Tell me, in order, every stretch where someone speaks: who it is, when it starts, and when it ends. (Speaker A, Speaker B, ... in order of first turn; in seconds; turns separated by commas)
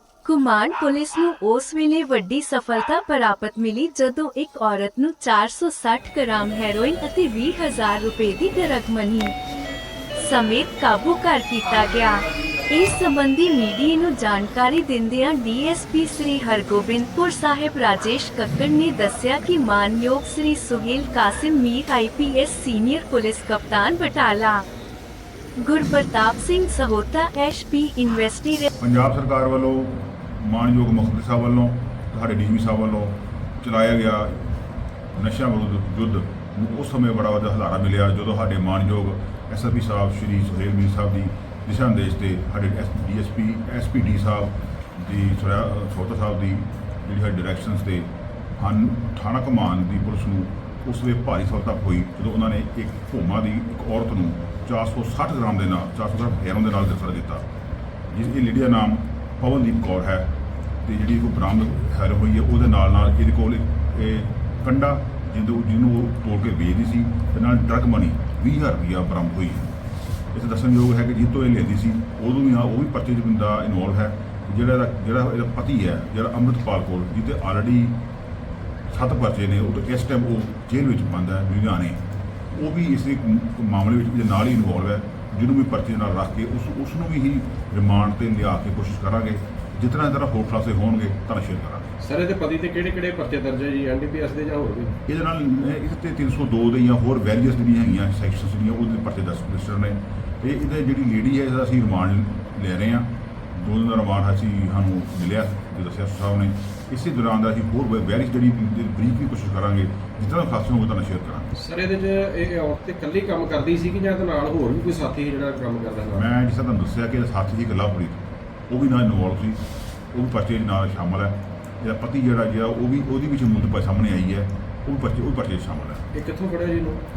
Speaker A: 0.2-9.3, Speaker A: 10.2-24.6, Speaker A: 25.6-28.7, Speaker B: 28.8-34.5, Speaker B: 35.1-57.5, Speaker B: 58.1-69.7, Speaker B: 70.3-78.0, Speaker B: 78.9-91.9, Speaker C: 92.0-95.0, Speaker B: 95.1-111.5, Speaker C: 111.6-116.3, Speaker B: 116.1-126.1, Speaker C: 126.1-127.0